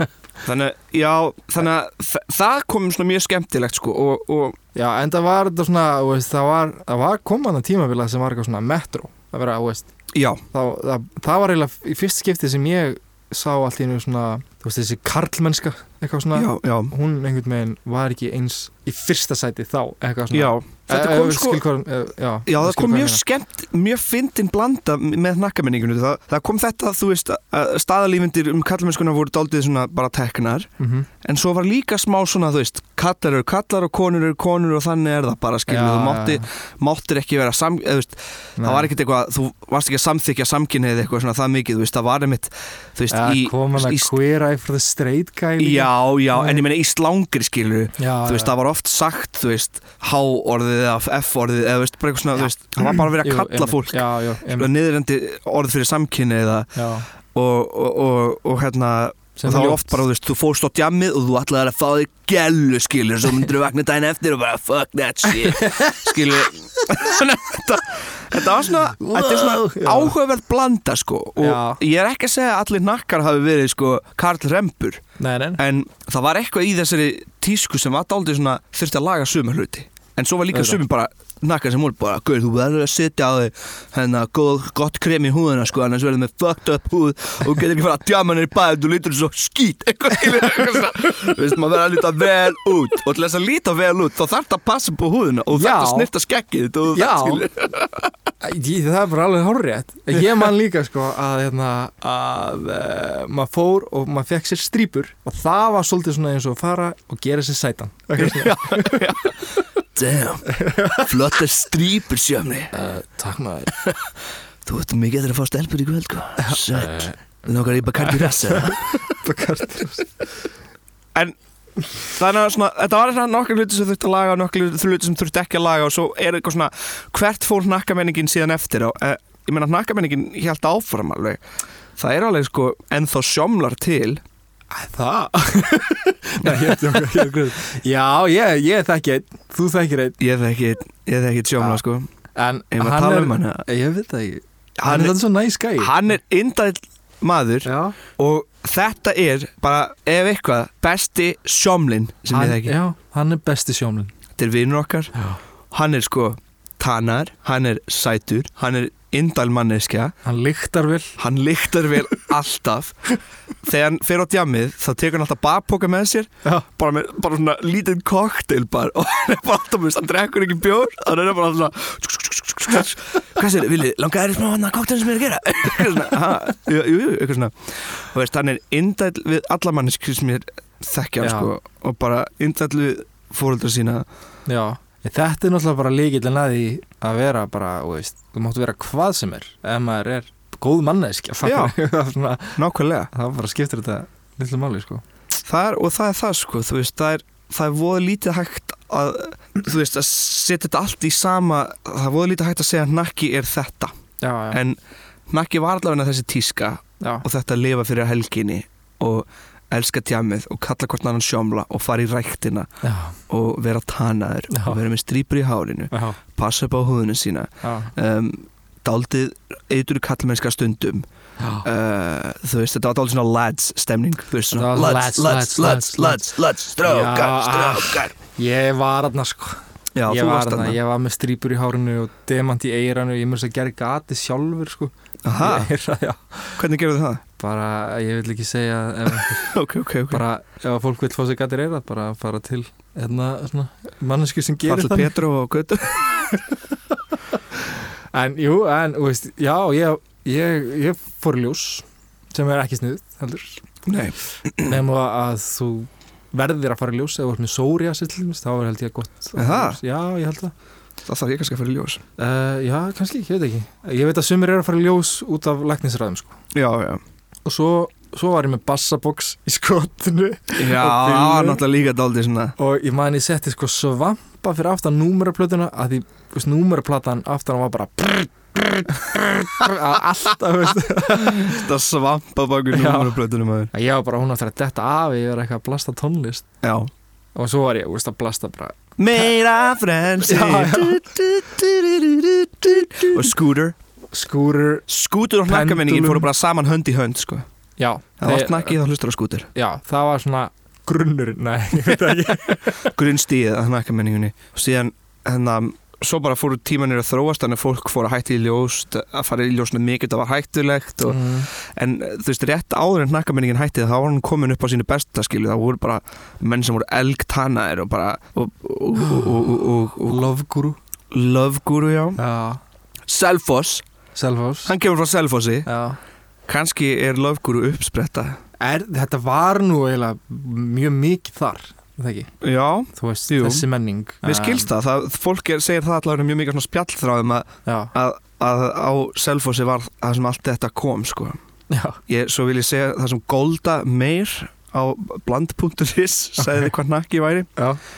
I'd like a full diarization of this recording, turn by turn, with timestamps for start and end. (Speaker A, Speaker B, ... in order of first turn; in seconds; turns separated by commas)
Speaker A: 0.4-4.6, Speaker B: 4.8-9.9, Speaker A: 10.1-10.4, Speaker B: 10.5-23.2, Speaker A: 16.3-16.9, Speaker A: 20.3-21.6, Speaker A: 22.5-30.7, Speaker B: 30.8-31.1, Speaker A: 31.2-44.1, Speaker B: 35.7-36.5, Speaker B: 38.6-38.9, Speaker B: 43.1-46.6, Speaker A: 45.6-56.7, Speaker B: 48.0-48.5, Speaker B: 52.4-54.7, Speaker B: 56.8-57.1, Speaker A: 57.3-75.0, Speaker B: 59.4-60.0, Speaker B: 65.4-66.2, Speaker B: 69.0-70.2, Speaker B: 71.4-71.8, Speaker B: 75.2-75.6, Speaker A: 75.6-98.1, Speaker B: 80.5-80.8, Speaker B: 95.5-96.1, Speaker B: 96.9-97.5, Speaker B: 98.4-109.1, Speaker A: 108.2-112.7, Speaker B: 110.5-111.1, Speaker B: 112.7-113.7, Speaker A: 113.7-114.0, Speaker A: 114.6-119.0, Speaker B: 116.4-117.2, Speaker B: 118.0-120.1, Speaker A: 122.0-131.4, Speaker A: 132.0-134.2, Speaker B: 134.7-140.2, Speaker A: 136.4-137.2, Speaker A: 140.2-142.1, Speaker B: 142.4-146.1, Speaker A: 142.7-143.7, Speaker A: 144.8-145.2, Speaker A: 145.8-152.8, Speaker B: 147.7-148.0, Speaker B: 152.3-154.1, Speaker A: 154.4-155.1, Speaker A: 155.7-160.1, Speaker B: 160.2-161.2, Speaker A: 161.2-163.0, Speaker A: 163.6-184.1, Speaker B: 181.2-181.5, Speaker B: 184.5-192.6, Speaker A: 191.4-191.8, Speaker A: 192.6-193.1, Speaker B: 193.1-195.0, Speaker A: 195.4-203.9, Speaker B: 204.2-204.6, Speaker A: 204.5-204.8, Speaker A: 205.3-212.7, Speaker B: 207.0-207.3, Speaker B: 212.8-213.2, Speaker A: 213.3-221.1, Speaker B: 214.5-214.8, Speaker B: 215.9-216.2, Speaker B: 217.6-217.9, Speaker B: 221.4-221.7, Speaker A: 221.6-228.2, Speaker B: 224.5-236.6, Speaker A: 229.9-230.8, Speaker A: 235.3-235.7, Speaker A: 236.6-237.2, Speaker B: 237.4-239.5, Speaker A: 239.2-240.2, Speaker B: 240.1-245.2, Speaker A: 244.7-246.3, Speaker B: 248.1-253.7, Speaker A: 253.9-254.8, Speaker B: 254.6-260.5, Speaker A: 259.4-259.8, Speaker A: 261.1-262.0, Speaker B: 262.2-266.4, Speaker A: 266.5-267.0, Speaker B: 267.5-271.6, Speaker A: 270.6-272.6, Speaker B: 272.6-281.7, Speaker A: 281.1-283.7, Speaker B: 282.7-283.2, Speaker B: 283.7-286.5, Speaker A: 286.6-286.9, Speaker B: 287.4-288.8, Speaker A: 289.0-293.8, Speaker B: 290.2-291.1, Speaker B: 292.9-293.1, Speaker B: 294.1-294.9, Speaker A: 294.9-297.5, Speaker B: 295.5-296.3, Speaker B: 297.8-298.8, Speaker A: 298.2-299.5, Speaker B: 299.6-302.9, Speaker A: 302.8-320.3, Speaker B: 311.1-311.5, Speaker B: 319.0-319.4, Speaker B: 320.0-320.8, Speaker A: 321.1-322.2, Speaker B: 322.2-322.6, Speaker A: 323.1-323.8, Speaker B: 324.1-324.7, Speaker A: 324.6-325.7, Speaker B: 325.7-326.0, Speaker A: 326.5-328.4, Speaker B: 328.6-332.3, Speaker A: 332.4-333.7, Speaker B: 332.9-334.7, Speaker A: 334.2-341.4, Speaker B: 337.7-337.9, Speaker B: 341.7-342.0, Speaker A: 342.1-347.5